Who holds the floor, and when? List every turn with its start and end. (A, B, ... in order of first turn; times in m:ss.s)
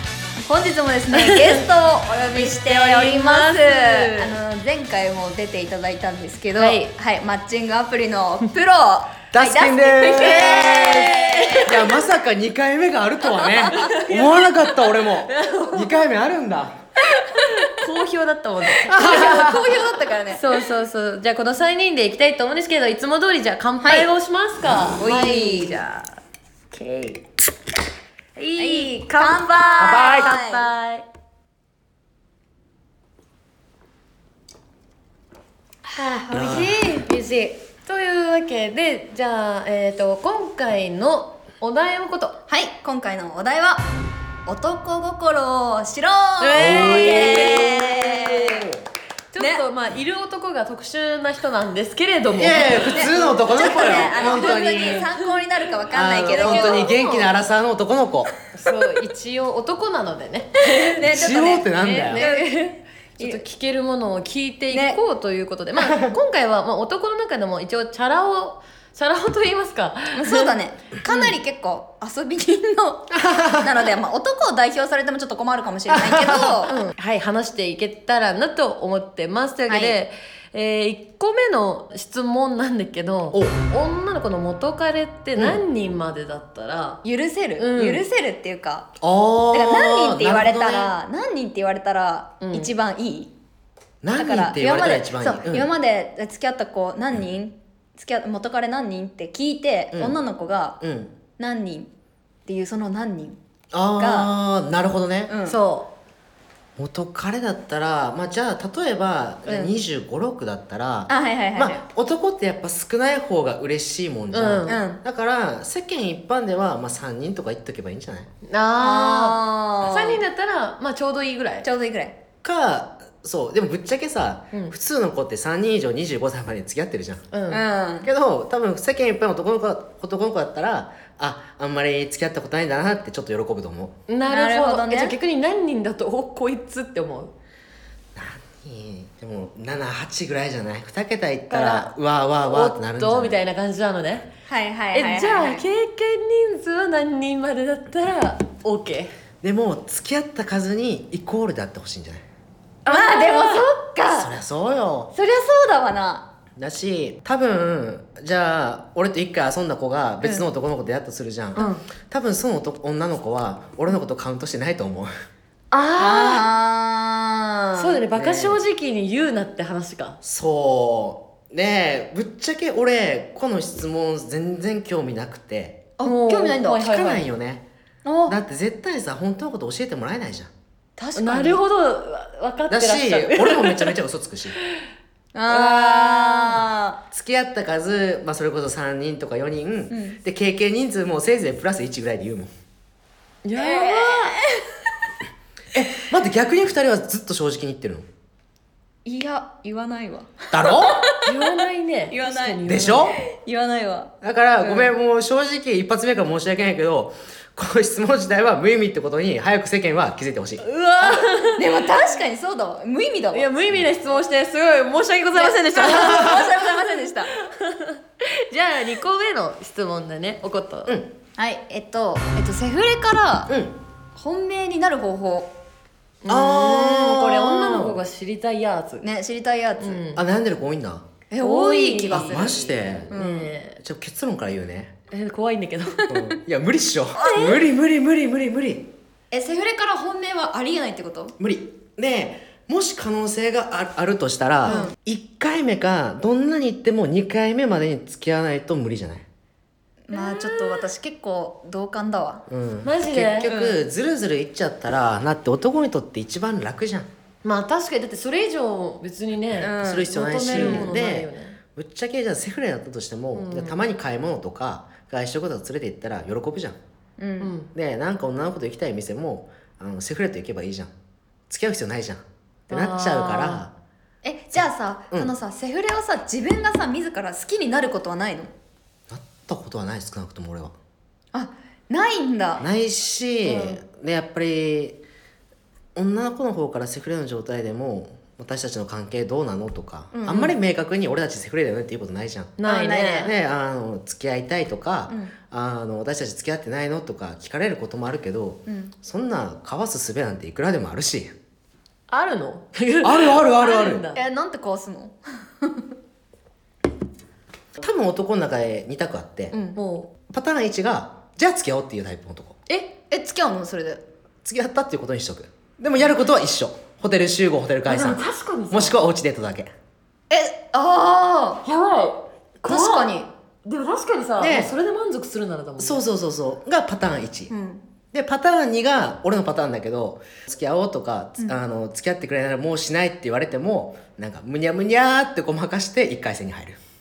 0:00.4-0:12.0 A
0:01.1-0:01.6 B
0:02.3-0:04.4 B
0:06.6-0:06.8 B
0:09.3-0:16.8 C
0:10.1-0:11.7 B
0:13.3-0:14.3 A
0:13.7-0:14.5 B
0:15.3-0:16.0 B
0:17.1-0:19.6 B
0:18.8-0:19.7 C
0:18.9-0:20.6 A
0:20.3-0:26.1 B
0:23.8-0:24.1 A
0:25.0-0:25.8 A
0:26.7-0:27.2 B
0:28.4-0:31.0 B
0:28.6-0:30.7 A
0:29.8-0:30.4 C
0:35.9-0:42.4 B
0:36.3-0:37.1 A
0:36.3-0:36.8 C
0:42.5-0:43.9 A
0:44.4-0:48.7 A
0:46.4-0:48.6 B
0:46.6-0:47.9 C
0:48.5-0:48.8 C
0:49.3-0:55.3 B
0:52.3-0:55.1 C
0:52.9-0:57.2 A
0:55.9-0:58.3 C
0:56.3-0:57.2 B
0:58.5-1:10.5 B
1:00.8-1:03.4 A
1:01.0-1:02.2 C
1:04.7-1:05.0 A
1:05.8-1:06.1 C
1:10.1-1:16.8 A
1:13.1-1:13.7 C
1:15.9-1:16.6 C
1:16.6-1:27.0 B
1:19.7-1:20.0 A
1:27.0-1:29.0 A
1:27.6-1:28.0 B
1:29.0-1:30.9 C
1:29.5-1:33.3 A
1:32.4-1:32.7 B
1:34.0-1:35.7 C
1:34.1-1:40.8 A
1:40.8-1:41.1 C
1:41.4-1:41.9 A
1:42.5-1:43.4 A
1:43.7-1:45.3 C
1:44.0-1:44.3 A
1:45.3-1:45.6 A
1:45.4-1:45.9 B
1:46.8-1:58.3 C
1:49.5-1:49.7 A
1:51.1-1:51.8 A
1:54.3-1:54.8 B
1:54.7-1:55.0 A
1:58.4-2:01.6 B
1:58.8-2:00.2 A
2:01.6-2:02.2 A
2:02.4-2:07.2 C
2:07.3-2:07.6 B
2:07.5-2:08.1 A
2:08.0-2:14.0 C
2:14.1-2:17.3 B
2:14.3-2:15.1 A
2:18.1-2:23.4 C
2:21.5-2:21.9 B
2:22.4-2:24.3 B
2:24.5-2:25.6 A
2:24.9-2:29.1 B
2:29.4-2:32.2 C
2:32.8-2:33.7 B
2:32.9-2:34.3 A
2:34.1-2:35.1 C
2:35.1-2:36.3 A
2:36.6-2:45.1 C
2:41.6-2:41.8 B
2:45.7-2:46.5 B
2:46.0-2:48.0 A
2:47.8-2:50.2 B
2:48.1-2:48.6 C
2:50.2-2:55.9 C
2:56.0-2:56.8 A
2:56.0-2:57.2 B
2:56.7-2:57.6 C
2:58.0-2:58.4 A
2:58.3-3:00.5 C
3:01.0-3:01.6 A
3:01.2-3:04.0 B
3:02.7-3:04.6 C
3:05.3-3:07.0 A
3:05.5-3:06.6 B
3:07.1-3:12.5 C
3:09.9-3:10.2 A
3:13.4-3:14.4 B
3:13.6-3:14.7 A
3:15.7-3:18.1 C
3:19.0-3:21.4 A
3:20.5-3:21.0 C
3:21.2-3:23.2 B
3:22.1-3:22.6 A
3:22.6-3:23.2 C
3:23.2-3:24.9 A
3:24.2-3:31.2 C
3:30.6-3:31.8 B
3:31.5-3:33.5 A
3:33.3-3:36.6 B
3:35.3-3:37.3 A
3:35.9-3:36.4 C
3:37.3-3:41.0 B
3:41.4-3:43.5 A
3:43.5-3:43.7 C
3:44.1-3:45.5 A
3:46.2-3:49.0 B
3:46.3-3:48.0 C
3:49.0-3:50.0 A
3:49.8-3:50.2 B
3:50.2-3:51.1 C
3:51.3-3:53.5 A
3:51.4-3:52.6 B
3:52.1-3:53.1 C
3:53.1-3:53.8 B
3:53.8-3:54.9 C
3:55.1-3:56.1 B
3:56.1-3:58.9 C
3:57.2-3:57.6 A
3:59.3-4:01.4 A
4:01.4-4:09.2 C
4:04.6-4:04.9 A
4:10.1-4:12.4 A
4:10.1-4:10.8 B
4:12.5-4:17.1 C
4:12.8-4:13.5 B
4:13.4-4:13.8 A
4:17.4-4:21.6 B
4:19.6-4:20.9 A
4:19.7-4:26.8 C
4:23.3-4:23.8 B
4:27.2-4:27.5 A
4:27.4-4:27.7 B
4:27.7-4:30.9 C
4:31.5-4:33.7 C
4:32.7-4:33.6 B
4:34.2-4:38.5 A
4:34.6-4:35.3 C
4:39.1-4:40.7 C
4:41.3-4:42.6 A
4:42.6-4:45.0 C
4:43.4-4:43.8 B
4:45.9-4:52.6 C
4:50.1-4:50.5 A
4:52.6-4:53.3 B
4:52.6-4:53.3 A
4:53.1-5:01.3 C
4:55.1-4:55.3 A
4:58.7-4:58.9 A
5:02.1-5:04.2 B
5:03.0-5:04.0 C
5:04.1-5:05.9 A
5:07.8-5:09.5 C
5:09.5-5:09.8 A
5:09.7-5:10.1 B
5:10.3-5:12.6 C
5:13.1-5:14.0 A
5:14.4-5:19.7 C
5:17.8-5:19.0 B
5:20.3-5:21.6 A
5:21.6-5:26.0 B
5:22.6-5:23.3 A
5:24.4-5:24.7 C
5:25.8-5:27.5 C
5:27.5-5:27.8 A
5:28.1-5:36.8 C